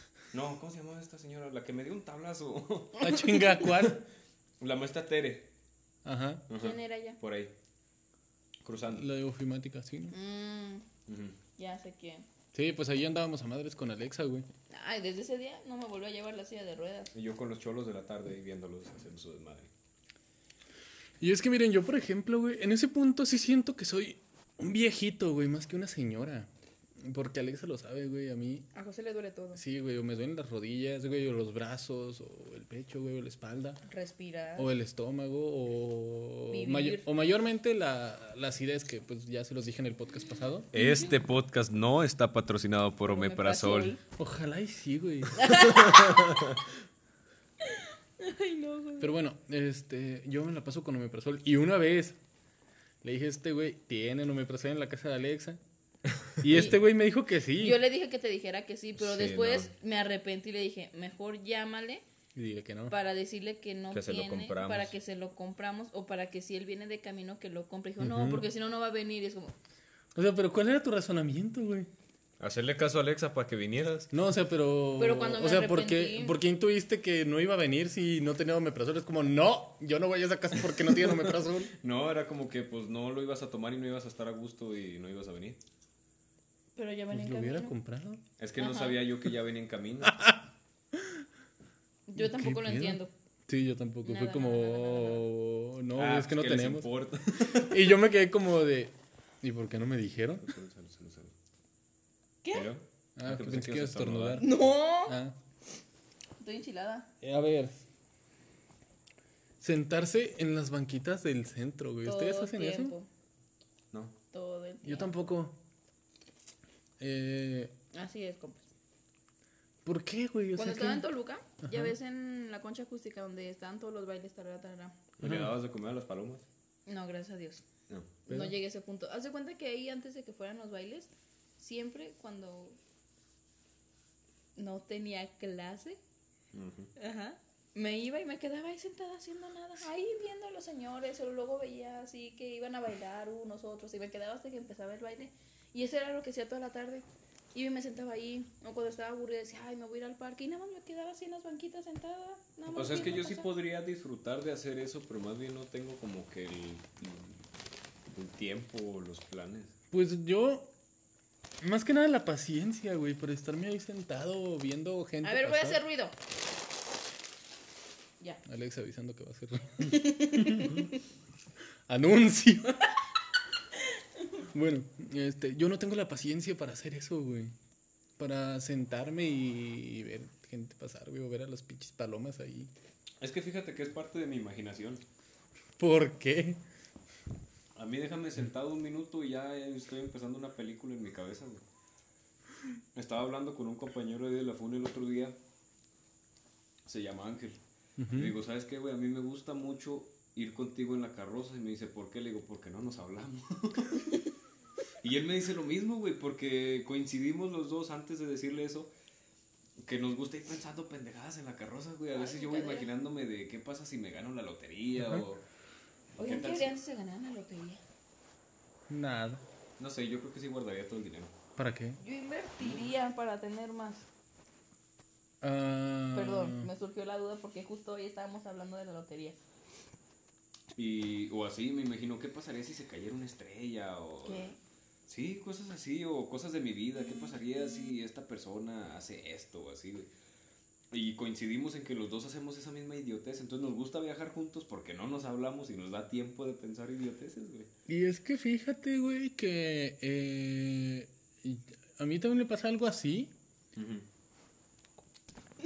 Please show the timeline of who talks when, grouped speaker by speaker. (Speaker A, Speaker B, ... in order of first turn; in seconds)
Speaker A: 0.3-3.2, 4.6-5.5, 6.5-7.5, 8.6-9.1, 11.1-11.4, 17.1-19.7, 40.7-44.0, 45.5-46.6, 59.0-59.7, 63.9-64.9, 72.4-74.1, 80.9-85.6, 88.4-90.2, 96.0-97.9, 100.4-101.3, 102.5-104.6, 125.2-126.4, 127.9-128.2, 136.5-136.9, 152.7-157.4, 158.1-159.7, 183.2-185.0, 187.8-191.6, 192.9-195.4, 196.9-197.6, 198.1-204.2, 205.0-208.9, 209.8-215.4, 216.2-216.8, 219.8-221.3, 222.6-222.9, 230.8-234.5, 235.1-240.1, 240.9-247.7, 253.8-254.1
Speaker B: 3.0-4.0, 6.0-6.5, 8.9-10.2, 12.5-14.5, 21.2-26.5, 27.0-28.6, 29.5-33.8, 34.6-40.7, 44.2-45.5, 49.0-52.2, 53.0-55.6, 56.4-57.8, 62.4-63.0, 68.0-68.4, 70.2-71.9, 74.1-81.7, 87.1-88.2, 90.1-90.4, 91.0-91.2, 92.2-100.5, 103.2-104.5, 105.1-105.4, 107.2-107.8, 109.6-112.9, 114.8-115.5, 117.0-117.7, 119.8-121.0, 121.6-121.9, 128.3-128.5, 159.9-160.7, 161.6-165.8, 168.4-170.0, 171.9-172.8, 174.5-177.5, 178.2-182.7, 185.8-186.6, 198.0-198.3, 215.0-215.2, 218.9-219.4, 221.6-222.0, 225.4-226.7, 247.9-253.3
Speaker C: 6.5-7.2, 10.1-10.9, 11.6-12.3, 14.7-17.1, 28.7-29.6, 33.9-34.7, 36.5-37.1, 40.8-41.1, 43.1-44.0, 45.4-46.4, 47.6-49.1, 56.5-56.8, 57.6-62.0, 62.9-69.5, 75.0-76.4, 86.8-87.7, 88.6-89.0, 92.1-93.1, 94.0-95.3, 102.4-102.7, 104.4-105.2, 106.4-107.1, 112.0-113.1, 114.3-115.2, 117.9-118.6, 120.6-125.0, 126.9-127.6, 128.3-132.8, 134.6-136.0, 137.0-153.5, 165.2-166.1, 169.8-170.9, 212.1-212.9, 216.2-217.8, 222.0-224.1, 226.2-229.4, 234.2-234.6